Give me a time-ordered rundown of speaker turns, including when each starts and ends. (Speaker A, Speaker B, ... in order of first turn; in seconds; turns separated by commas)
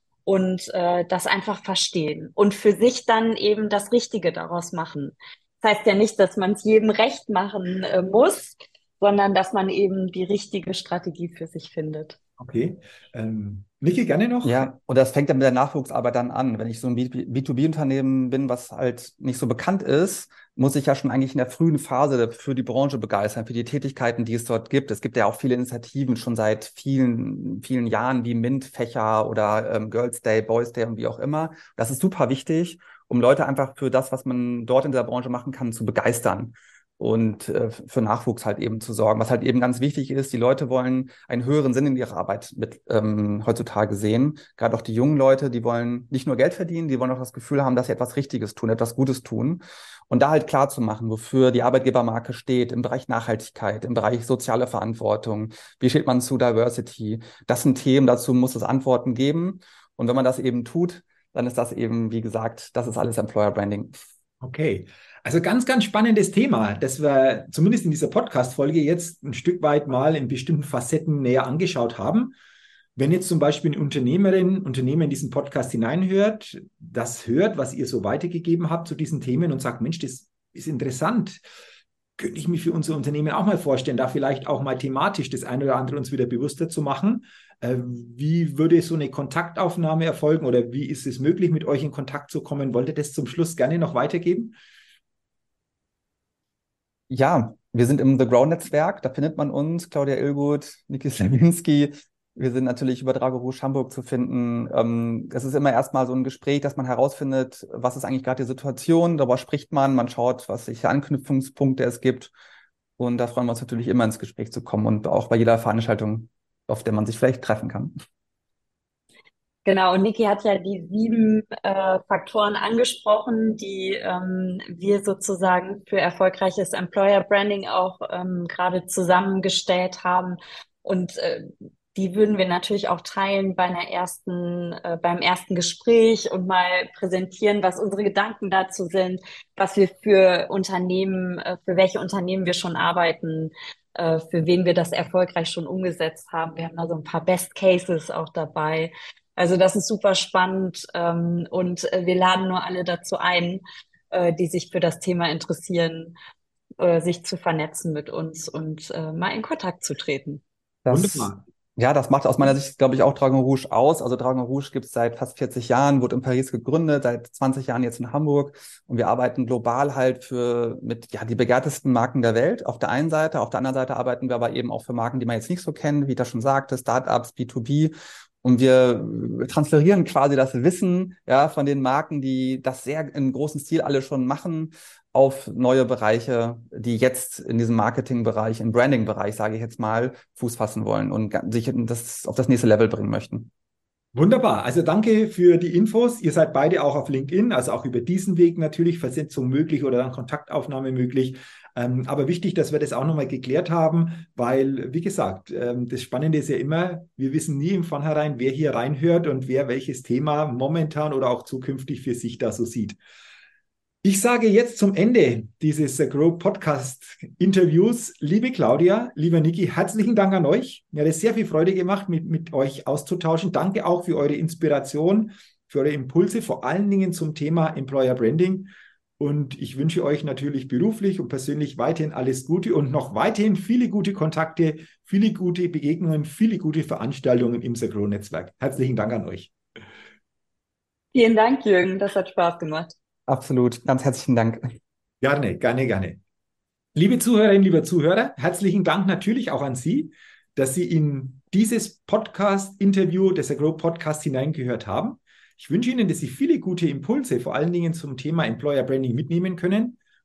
Speaker A: 0.3-12.2, Speaker B: 12.4-14.7, Speaker C: 14.4-63.9, Speaker B: 64.4-72.4, Speaker B: 73.0-81.4, Speaker B: 82.2-94.6, Speaker C: 97.1-112.3, Speaker C: 113.0-117.9, Speaker A: 119.7-156.2, Speaker A: 156.8-160.4, Speaker C: 160.8-193.5, Speaker B: 160.9-161.4, Speaker B: 194.1-213.0, Speaker B: 214.0-239.5, Speaker A: 241.1-242.9, Speaker C: 243.3-244.7, Speaker B: 245.2-246.2, Speaker B: 246.9-260.0